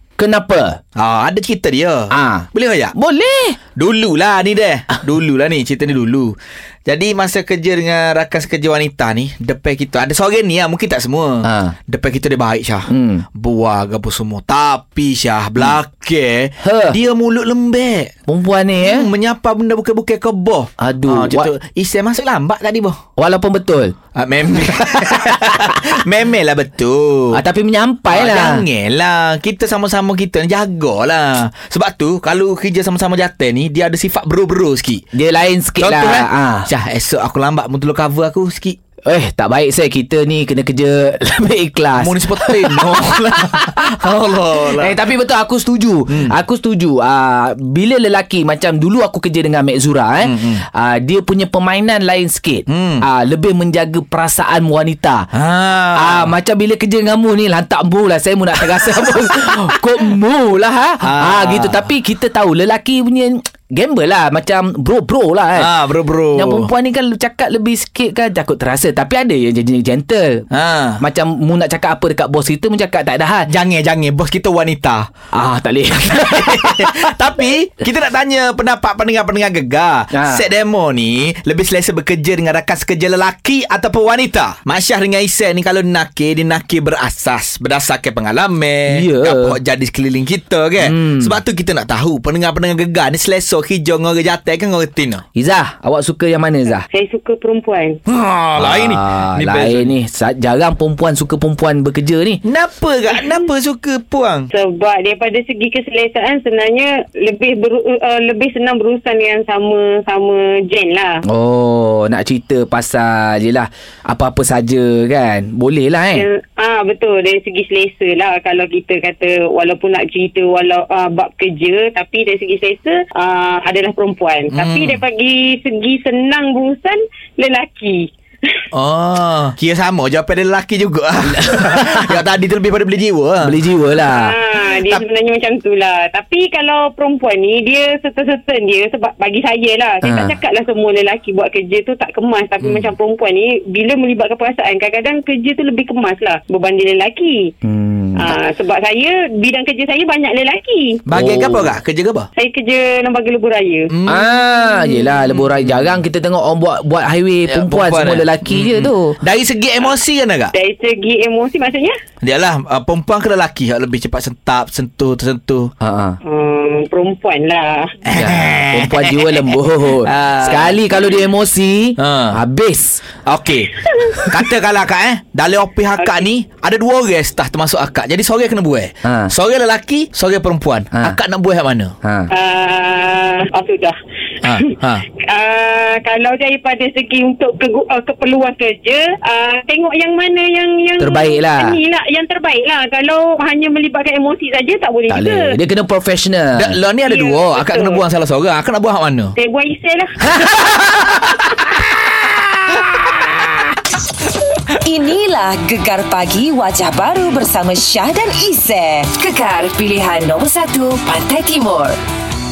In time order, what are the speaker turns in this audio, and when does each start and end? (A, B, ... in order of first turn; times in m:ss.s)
0:00.2-0:00.8 A
0:01.0-0:02.9 B
0:02.1-0:03.6 A
0:03.8-0:18.1 B
0:11.4-0:11.7 A
0:12.9-0:13.2 A
0:16.6-0:17.0 A
0:18.3-0:19.1 A
0:18.8-0:23.0 B
0:20.8-0:21.5 A
0:23.2-0:24.0 A
0:24.1-0:27.4 B
0:27.3-0:28.6 A
0:28.1-0:35.0 B
0:35.1-0:36.7 A
0:35.8-0:38.8 B
0:39.1-0:43.8 A
0:42.0-0:45.0 B
0:44.6-0:55.3 A
0:46.1-0:46.3 B
0:50.2-0:50.6 B
0:52.7-0:53.1 B
0:55.3-0:56.3 B
0:56.0-1:05.7 A
1:01.0-1:01.9 B
1:05.6-1:06.7 B
1:06.3-1:10.4 A
1:10.5-1:11.0 B
1:11.0-1:13.5 A
1:13.5-1:15.1 B
1:15.3-1:17.1 A
1:16.1-1:35.2 B
1:20.1-1:20.4 A
1:28.9-1:29.6 A
1:30.8-1:31.4 A
1:35.3-1:36.8 A
1:36.9-1:38.0 C
1:38.0-1:39.9 B
1:38.6-1:42.4 A
1:42.4-1:44.5 B
1:44.5-1:51.1 C
1:51.3-1:56.2 A
1:56.1-2:08.1 C
2:04.5-2:05.0 B
2:08.7-2:13.6 B
2:11.3-2:12.2 A
2:13.4-2:14.4 A
2:14.0-2:27.5 C
2:14.6-2:15.0 B
2:20.0-2:20.3 A
2:22.6-2:22.9 B
2:27.6-2:28.3 A
2:28.2-2:31.0 C
2:31.1-2:32.3 B
2:31.1-2:31.8 A
2:32.4-2:33.9 C
2:33.9-2:34.7 B
2:34.1-2:39.2 A
2:35.3-2:36.0 B
2:37.5-2:40.5 B
2:40.5-2:41.9 C
2:42.2-2:45.7 B
2:45.8-2:46.2 A
2:46.2-2:47.9 C
2:48.0-2:50.8 B
2:48.1-2:53.0 A
2:52.0-2:52.4 B
2:53.2-3:01.9 B
2:56.0-2:56.2 C
2:59.0-2:59.3 A
3:02.0-3:02.3 A
3:02.3-3:03.9 C
3:04.4-3:05.0 B
3:05.2-3:15.5 C
3:11.0-3:11.7 A
3:15.1-3:16.7 A
3:16.6-3:19.3 B
3:17.0-3:18.0 C
3:19.4-3:20.3 C
3:20.4-3:23.7 B
3:24.8-3:32.0 D